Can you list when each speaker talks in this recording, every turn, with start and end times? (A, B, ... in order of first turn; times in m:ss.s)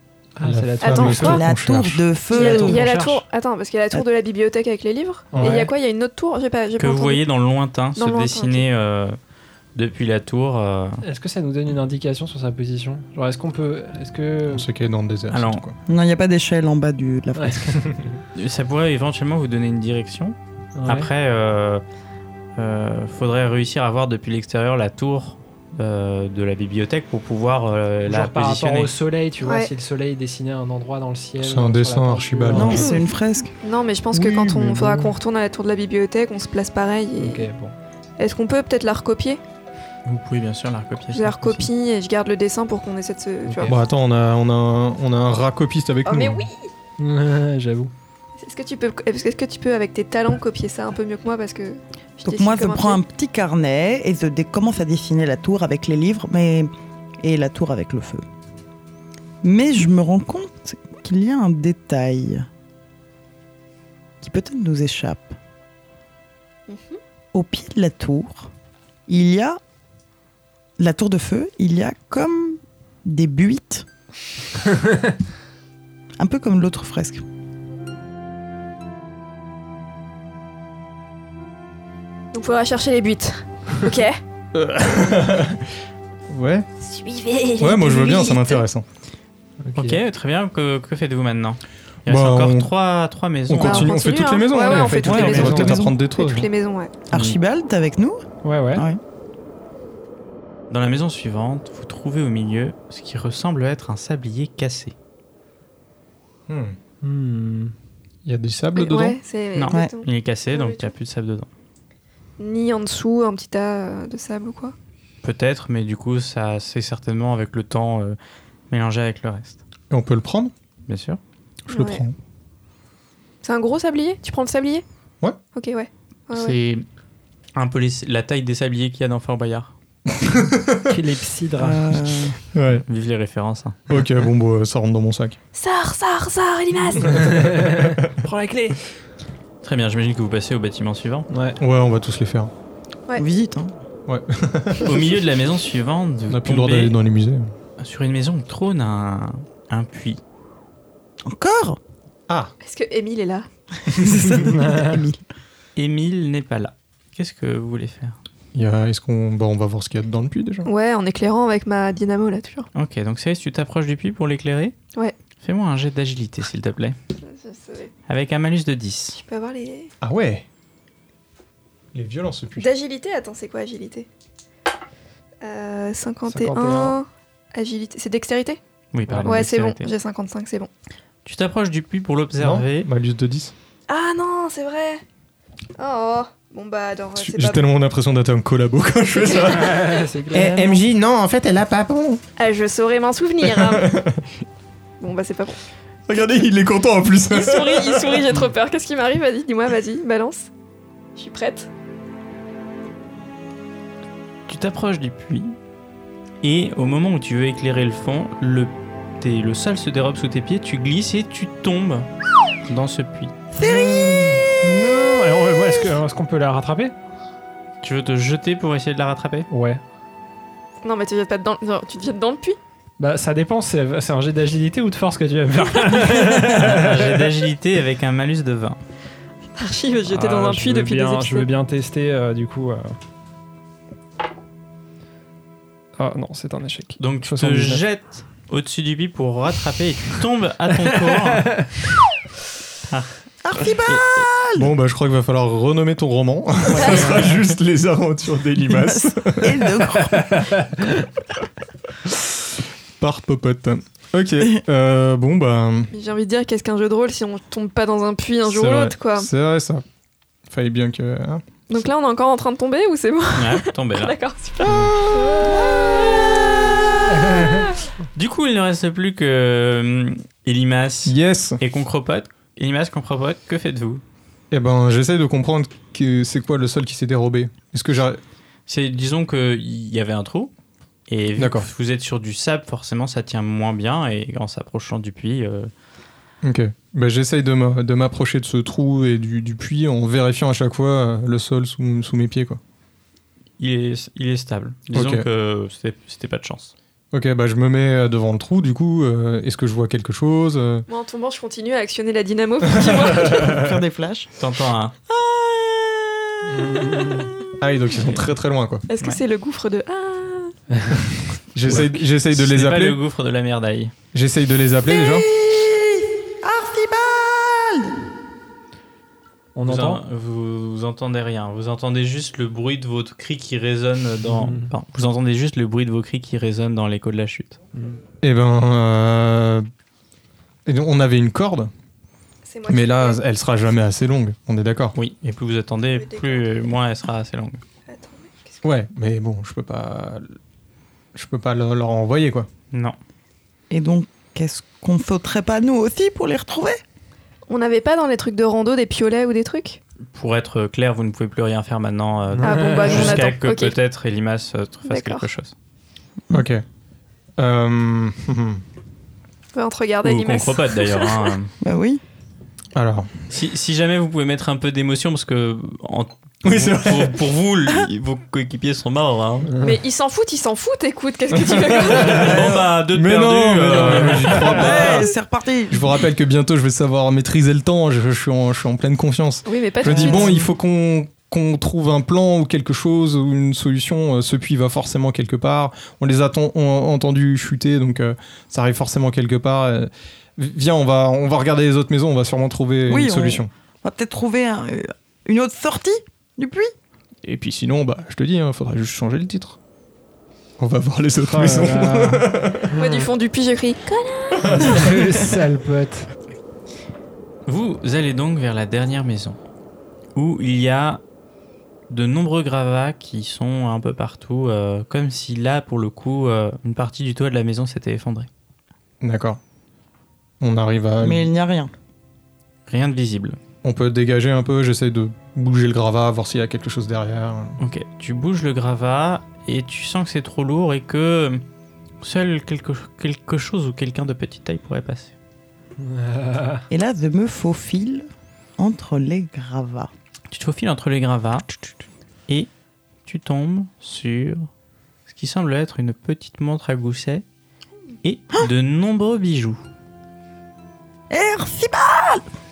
0:00.4-0:01.4 A
0:00.4-0:02.0 B
0:00.8-0:01.4 C
0:01.2-0:02.8 D
0:02.3-0:07.2 C
0:02.3-0:03.2 E
0:05.3-0:05.7 A
0:06.8-0:09.2 E
0:08.0-0:08.7 C
0:09.7-0:11.0 E
0:11.0-0:14.7 A
0:14.5-0:15.8 B
0:15.3-0:15.6 E
0:15.9-0:17.8 D
0:17.4-0:17.8 A
0:18.3-0:21.8 E
0:20.8-0:21.1 A
0:22.6-0:28.9 E
0:28.1-0:33.0 A
0:29.4-0:29.7 C
0:31.4-0:33.0 B
0:32.5-0:33.5 D
0:33.6-0:37.4 C
0:34.1-0:35.2 B
0:37.2-0:37.7 A
0:38.2-0:39.4 C
0:40.0-0:41.7 E
0:41.1-0:43.7 C
0:43.6-0:46.5 B
0:46.0-0:46.7 C
0:47.0-0:47.9 A
0:48.4-0:53.0 C
0:52.2-0:58.2 D
0:59.4-1:02.5 D
1:04.2-1:05.3 D
1:06.7-1:07.0 C
1:07.3-1:08.5 D
1:09.1-1:09.6 D
1:10.8-1:13.8 D
1:16.2-1:17.2 D
1:22.3-1:24.2 C
1:24.5-1:25.6 B
1:26.3-1:26.6 B
1:26.8-1:28.6 C
1:27.6-1:28.8 B
1:29.6-1:30.0 A
1:29.7-1:33.9 E
1:32.1-1:32.7 B
1:33.5-1:36.5 B
1:33.6-1:36.9 C
1:34.5-1:36.0 D
1:37.1-1:38.2 D
1:38.4-1:38.8 A
1:38.7-1:39.0 D
1:40.7-1:44.9 E
1:46.5-1:46.8 B
1:47.0-1:47.7 A
1:48.2-1:49.2 B
1:48.7-1:50.9 C
1:49.5-1:51.5 E
1:49.7-1:49.9 D
1:52.4-1:54.7 C
1:55.2-1:58.2 E
1:58.7-1:59.6 E
1:59.9-2:00.5 B
2:00.9-2:01.2 E
2:01.7-2:02.2 B
2:01.7-2:02.0 C
2:03.4-2:04.8 C
2:05.5-2:06.6 C
2:06.3-2:06.9 E
2:07.6-2:09.7 E
2:10.2-2:10.9 B
2:10.9-2:12.0 A
2:11.6-2:12.4 D
2:12.5-2:12.8 B
2:12.9-2:13.8 E
2:13.9-2:15.4 B
2:15.5-2:17.5 C
2:17.1-2:18.8 A
2:17.6-2:18.0 B
2:19.6-2:21.3 E
2:21.3-2:21.6 A
2:21.6-2:22.5 B
2:23.2-2:23.7 D
2:24.1-2:25.2 B
2:24.8-2:27.0 E
2:26.3-2:27.5 B
2:27.8-2:30.2 E
2:31.2-2:31.8 D
2:32.6-2:33.5 C
2:33.9-2:35.2 D
2:34.0-2:34.3 B
2:34.3-2:35.0 A
2:35.8-2:38.2 E
2:38.5-2:40.7 B
2:40.6-2:42.7 C
2:42.7-2:44.8 E
2:45.4-2:47.0 E
2:47.2-2:47.9 C
2:48.1-2:49.2 E
2:49.2-2:49.9 C
2:50.0-2:50.4 B
2:51.9-2:52.7 B
2:52.6-2:54.1 C
2:55.4-2:58.6 C
2:56.3-2:57.0 A
2:58.9-2:59.9 E
2:59.2-3:00.7 C
3:01.2-3:02.9 E
3:02.4-3:03.5 B
3:03.9-3:05.0 C
3:05.8-3:07.6 C
3:07.2-3:12.2 B
3:09.2-3:09.8 C
3:09.5-3:10.8 A
3:12.4-3:14.0 C
3:13.4-3:14.2 B
3:15.0-3:15.6 C
3:16.1-3:18.4 B
3:17.3-3:20.5 C
3:21.2-3:21.7 C
3:24.5-3:25.6 E
3:26.4-3:32.1 E
3:32.6-3:33.3 E
3:33.5-3:34.4 D
3:33.6-3:36.9 A
3:37.8-3:39.5 E
3:39.5-3:39.8 A
3:40.8-3:42.6 C
3:43.0-3:47.3 A
3:46.4-3:48.8 E
3:49.6-3:51.5 C
3:50.1-3:52.9 A
3:56.0-3:57.8 A
3:57.0-4:01.6 E
4:01.1-4:01.6 A
4:02.9-4:03.1 E
4:03.4-4:04.7 D
4:04.6-4:09.7 B
4:06.8-4:07.3 A
4:08.7-4:10.5 D
4:10.3-4:10.6 A
4:13.0-4:15.9 B
4:15.9-4:19.3 C
4:18.4-4:19.8 B
4:20.5-4:21.4 B
4:21.7-4:27.7 C
4:23.3-4:24.1 E
4:25.4-4:27.3 D
4:27.2-4:27.5 A
4:28.1-4:34.0 E
4:31.0-4:31.6 B
4:34.5-4:38.2 B
4:38.7-4:40.5 E
4:41.1-4:45.7 E
4:41.4-4:41.7 B
4:46.4-4:52.6 B
4:53.6-4:56.7 E
4:54.9-4:55.3 B
4:57.1-5:00.8 B
5:00.9-5:03.6 C
5:02.8-5:03.7 B
5:03.1-5:04.3 D
5:04.4-5:04.9 E
5:05.1-5:07.3 D
5:06.5-5:07.3 A
5:07.6-5:08.8 B
5:08.9-5:10.6 C
5:10.7-5:11.0 A
5:11.5-5:13.0 B
5:11.6-5:13.9 E
5:14.1-5:15.3 B
5:14.9-5:18.0 D
5:19.5-5:20.0 A
5:19.6-5:27.6 E
5:24.3-5:24.7 A
5:28.2-5:29.6 B
5:30.6-5:31.7 B
5:32.4-5:33.2 C
5:32.7-5:35.0 B
5:34.9-5:37.6 E
5:35.9-5:36.5 C
5:37.9-5:38.6 C
5:38.6-5:40.3 B
5:41.1-5:42.5 B
5:43.7-5:46.8 D
5:47.5-5:49.8 C
5:50.1-5:55.5 E
5:52.3-5:53.3 A
5:52.4-5:53.8 C
5:54.9-5:55.2 C
5:56.3-5:56.6 B
5:57.4-5:58.6 B
5:59.5-6:01.3 C
6:00.0-6:01.5 E
6:01.6-6:02.0 D
6:02.7-6:03.1 B
6:03.3-6:09.5 E
6:06.4-6:07.2 B
6:09.5-6:09.8 A
6:09.6-6:12.6 C
6:11.3-6:15.1 B
6:11.9-6:14.7 E
6:14.2-6:14.8 A
6:14.5-6:16.0 D
6:15.7-6:33.5 B
6:19.4-6:20.4 C
6:20.0-6:20.3 D
6:32.9-6:36.7 D
6:37.2-6:39.6 B
6:40.6-6:42.8 B
6:41.3-6:43.1 A
6:42.8-6:45.0 C
6:44.4-6:44.8 B
6:44.5-6:46.1 A
6:47.5-6:49.4 E
6:50.1-6:51.0 E
6:51.9-6:58.3 E
6:59.0-6:59.4 B
7:00.4-7:01.3 B
7:01.0-7:01.7 D
7:02.7-7:03.4 E
7:03.6-7:07.6 B
7:07.6-7:11.4 E
7:12.0-7:15.1 E
7:15.8-7:16.6 A
7:16.7-7:18.1 D
7:18.6-7:19.9 D
7:20.3-7:21.5 E
7:23.0-7:24.5 E
7:25.1-7:27.2 E
7:28.0-7:29.6 E
7:31.1-7:32.2 D